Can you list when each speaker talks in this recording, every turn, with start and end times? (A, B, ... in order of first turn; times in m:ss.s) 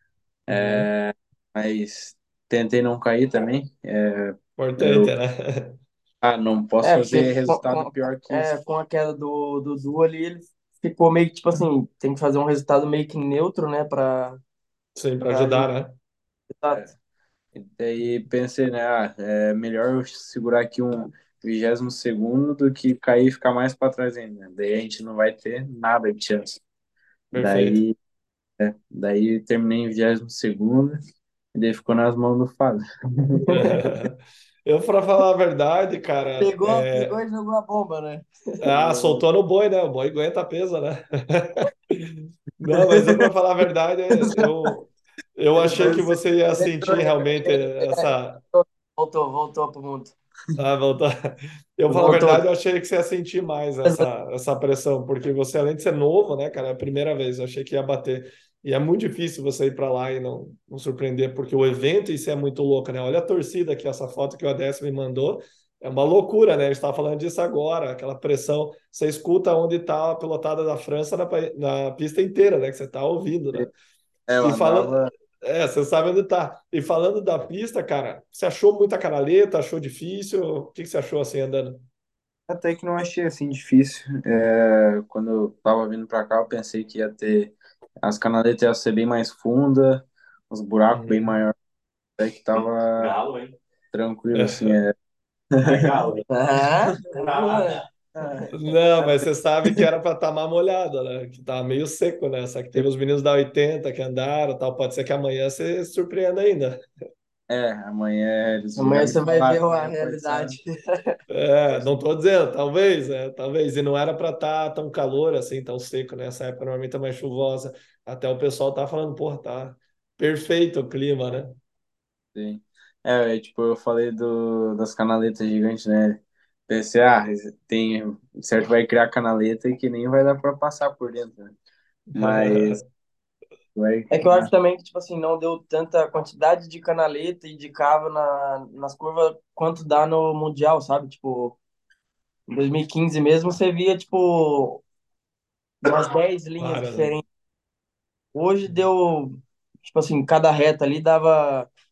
0:00.5-0:05.1 A
0:00.5-0:00.9 B
0:04.6-0:05.8 B
0:06.2-0:08.5 A
0:06.8-0:14.4 C
0:15.0-0:16.0 B
0:15.3-0:15.7 C
0:16.6-0:16.9 C
0:17.5-0:26.6 A
0:27.3-0:27.8 B
0:27.3-0:28.0 A
0:28.6-0:31.0 A
0:31.6-0:33.5 A
0:33.5-0:37.2 B
0:36.4-0:38.6 C
0:38.6-0:48.4 B
0:38.7-0:39.2 A
0:42.8-0:43.2 C
0:45.6-0:50.2 C
0:50.6-1:13.7 B
0:51.9-0:52.4 C
1:14.3-1:15.1 A
1:14.4-1:21.8 B
1:22.5-1:31.6 A
1:30.9-1:31.4 B
1:32.2-1:33.2 A
1:33.0-1:33.6 D
1:33.9-1:34.9 A
1:34.3-1:34.8 B
1:35.6-1:36.0 A
1:35.6-1:36.3 D
1:36.3-1:37.8 C
1:37.1-1:37.8 D
1:38.2-1:39.2 A
1:38.5-1:46.8 B
1:47.5-1:50.6 A
1:48.8-1:51.2 C
1:51.3-2:01.6 B
2:02.3-2:11.6 A
2:12.1-2:12.9 B
2:12.1-2:12.8 A
2:13.8-2:14.5 A
2:14.1-2:21.6 C
2:22.5-2:24.8 C
2:25.8-2:27.2 C
2:26.6-2:27.1 B
2:28.3-2:31.7 C